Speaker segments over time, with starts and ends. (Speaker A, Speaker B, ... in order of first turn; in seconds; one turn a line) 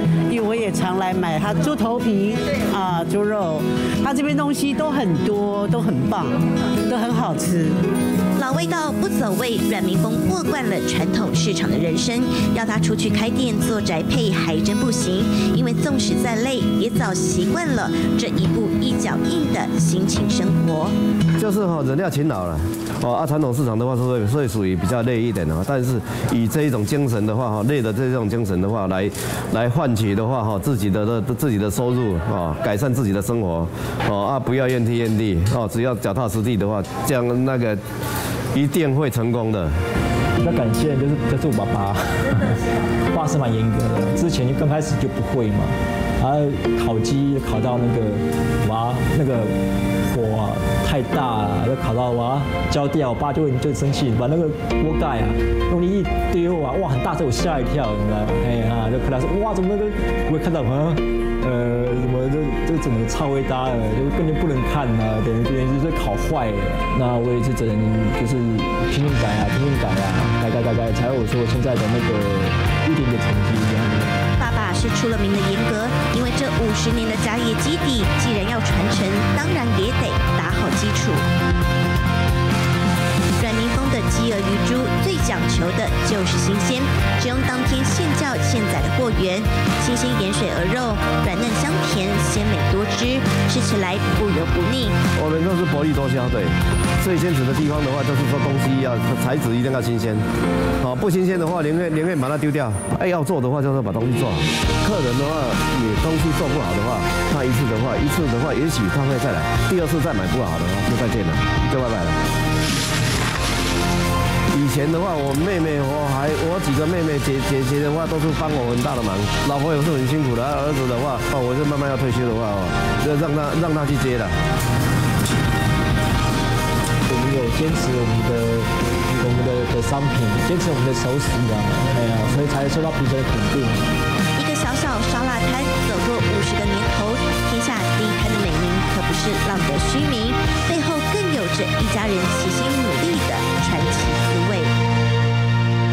Speaker A: 0.3-7.8
Speaker B: 8.4-20.9
Speaker C: 21.4-37.8
Speaker C: 38.5-39.7
Speaker D: 40.4-42.6
Speaker D: 43.1-74.2
Speaker B: 74.4-81.2
Speaker B: 83.3-95.0
Speaker C: 95.2-100.2
Speaker C: 100.8-112.2
Speaker C: 114.5-124.3
Speaker D: 127.1-133.9
Speaker B: 134.3-144.7